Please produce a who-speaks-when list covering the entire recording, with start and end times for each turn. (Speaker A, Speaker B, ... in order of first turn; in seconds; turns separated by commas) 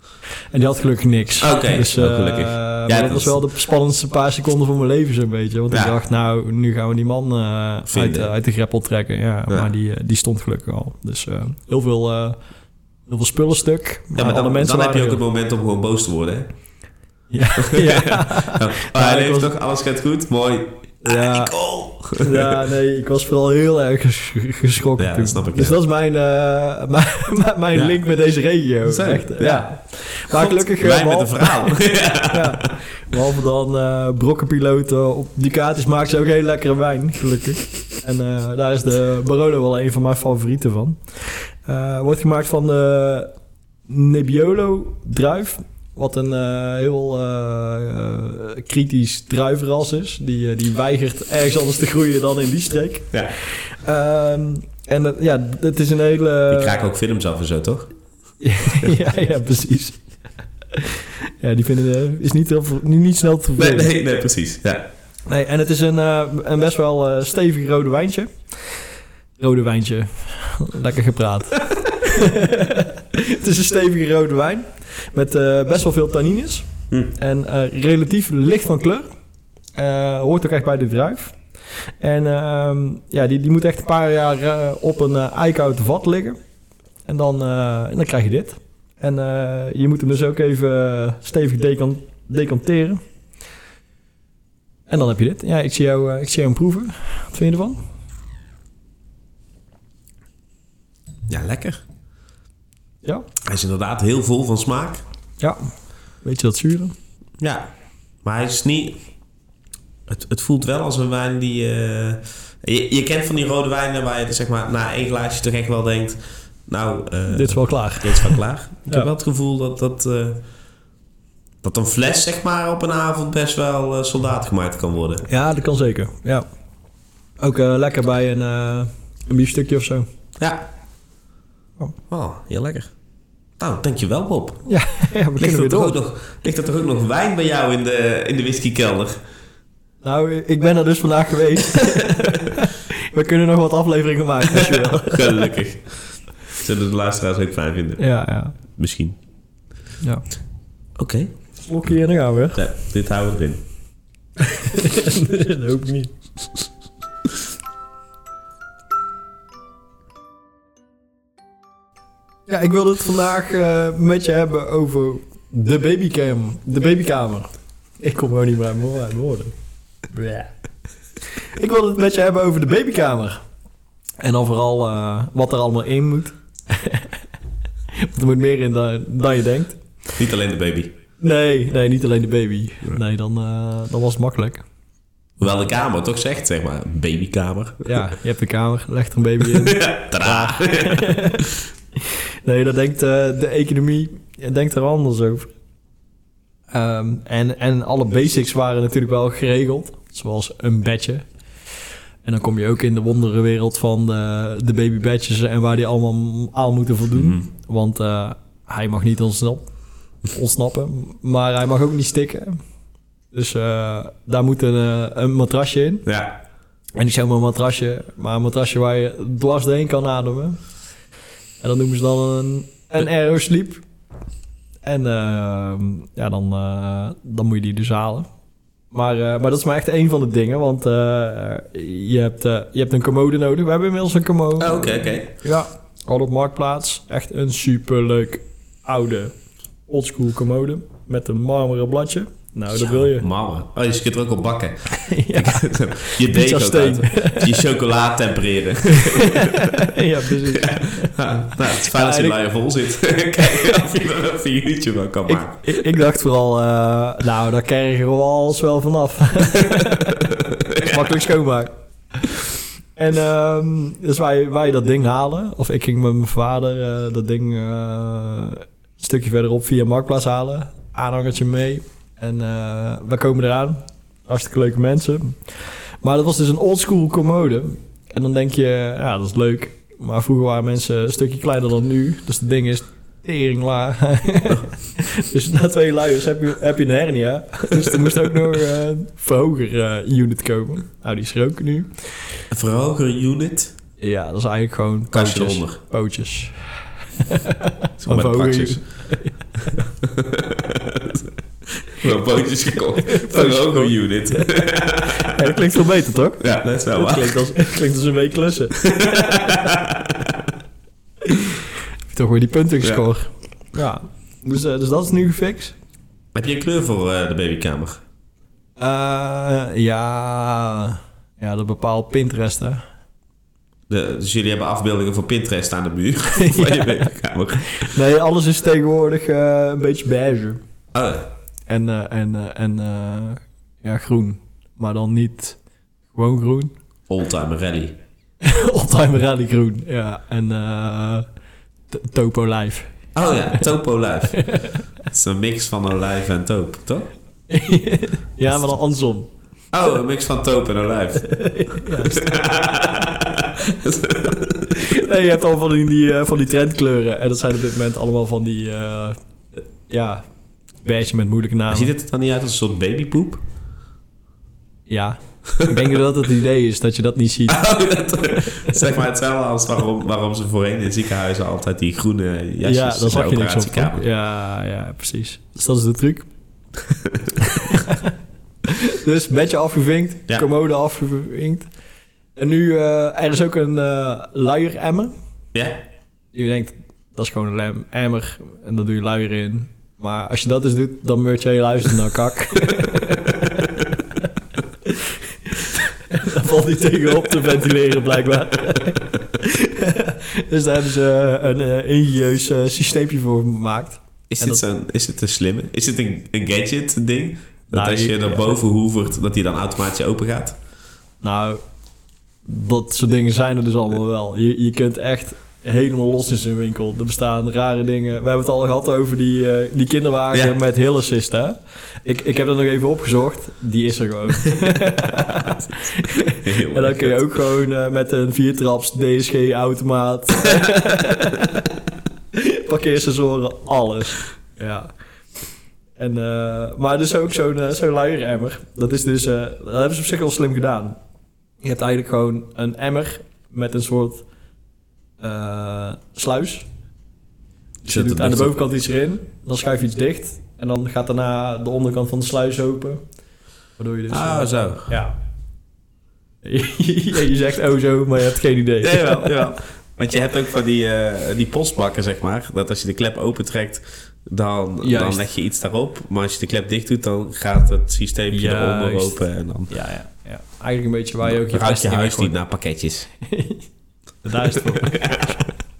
Speaker A: 0.5-12.4, Speaker B: 1.4-3.4, Speaker B: 5.7-6.0, Speaker B: 7.9-8.3, Speaker A: 13.1-15.2, Speaker B: 14.1-16.5, Speaker A: 17.3-19.5, Speaker B: 17.6-22.5, Speaker A: 21.0-31.8, Speaker B: 25.0-25.8, Speaker B: 28.8-29.7, Speaker B: 30.3-32.8, Speaker A: 32.3-43.3, Speaker A: 43.9-56.8, Speaker B: 56.5-57.9, Speaker A: 58.4-60.0, Speaker A: 60.7-63.9, Speaker B: 63.5-64.9, Speaker A: 65.3-68.4, Speaker A: 69.4-79.1, Speaker A: 79.8-81.4, Speaker A: 82.0-86.4, Speaker A: 87.0-93.0, Speaker A: 94.9-97.8, Speaker B: 101.3-101.8, Speaker B: 103.4-105.0, Speaker A: 105.4-105.7, Speaker A: 106.2-106.9, Speaker B: 107.4-107.7, Speaker B: 108.2-109.0, Speaker B: 110.1-120.4, Speaker A: 117.3-119.1, Speaker B: 121.6-125.2, Speaker A: 125.3-126.4, Speaker A: 127.4-130.1, Speaker B: 130.4-130.7, Speaker B: 132.1-132.9, Speaker B: 133.6-134.6, Speaker A: 134.7-135.9, Speaker B: 135.4-139.2, Speaker A: 140.0-145.4, Speaker B: 144.6-148.1, Speaker A: 148.0-148.6, Speaker B: 148.7-149.2, Speaker B: 151.0-151.3, Speaker A: 151.6-152.6, Speaker B: 152.5-153.6, Speaker A: 154.4-156.1, Speaker A: 162.5-167.5, Speaker A: 168.0-169.5, Speaker A: 170.1-170.5, Speaker A: 171.5-173.4, Speaker A: 174.2-177.2, Speaker A: 177.9-179.8, Speaker B: 180.2-180.9, Speaker A: 181.2-184.6, Speaker B: 185.4-188.0, Speaker A: 187.8-191.5, Speaker B: 189.5-191.5, Speaker A: 192.1-195.5, Speaker A: 196.7-201.2, Speaker A: 202.2-209.6, Speaker B: 207.2-207.4, Speaker A: 210.2-212.6, Speaker A: 213.3-216.1, Speaker B: 216.0-216.4, Speaker A: 217.0-220.6, Speaker A: 221.6-223.8, Speaker A: 224.8-228.3, Speaker A: 228.9-239.3, Speaker B: 234.6-235.3, Speaker A: 239.9-243.2, Speaker B: 242.7-255.7, Speaker A: 244.9-247.7, Speaker A: 248.9-251.2, Speaker A: 251.8-252.4, Speaker A: 253.4-253.9, Speaker A: 255.3-292.4, Speaker B: 259.7-261.0, Speaker B: 287.7-288.4, Speaker B: 292.5-293.7, Speaker A: 294.0-299.9, Speaker B: 295.1-295.8, Speaker B: 298.0-299.1, Speaker B: 300.0-305.5, Speaker A: 303.0-309.3, Speaker B: 306.4-307.5, Speaker B: 308.8-310.5, Speaker A: 312.1-315.8, Speaker B: 316.3-318.0, Speaker A: 318.8-322.8, Speaker B: 323.9-328.0, Speaker A: 326.3-327.1, Speaker A: 327.7-330.6, Speaker B: 330.9-331.3, Speaker A: 331.7-335.6, Speaker A: 336.1-336.7, Speaker B: 337.1-337.9, Speaker A: 338.4-341.2, Speaker A: 341.9-343.0, Speaker B: 343.1-347.1, Speaker A: 344.4-344.8, Speaker A: 347.5-349.3, Speaker B: 349.7-355.0, Speaker A: 351.2-352.2, Speaker A: 354.7-359.2, Speaker A: 359.8-360.2, Speaker A: 360.8-361.9, Speaker B: 361.7-363.4, Speaker A: 364.9-367.6, Speaker B: 367.5-374.0, Speaker A: 372.6-376.3, Speaker B: 377.0-377.3, Speaker A: 377.4-378.1, Speaker A: 378.6-381.7, Speaker A: 382.4-385.1, Speaker B: 385.5-385.8, Speaker A: 386.3-394.3, Speaker A: 394.8-404.6, Speaker B: 404.3-410.6, Speaker A: 407.7-408.4, Speaker A: 411.2-411.6, Speaker A: 412.4-431.8, Speaker B: 425.4-427.3, Speaker A: 432.3-434.9, Speaker A: 436.0-441.0, Speaker A: 441.6-444.2, Speaker A: 445.2-446.7, Speaker A: 447.8-453.0, Speaker B: 447.9-448.5, Speaker A: 453.8-455.1, Speaker B: 454.1-454.9, Speaker A: 456.4-459.5, Speaker B: 458.8-469.7, Speaker A: 464.8-465.2, Speaker A: 468.3-472.3, Speaker B: 471.2-473.1, Speaker A: 473.2-473.6, Speaker A: 474.2-475.5, Speaker B: 474.8-475.4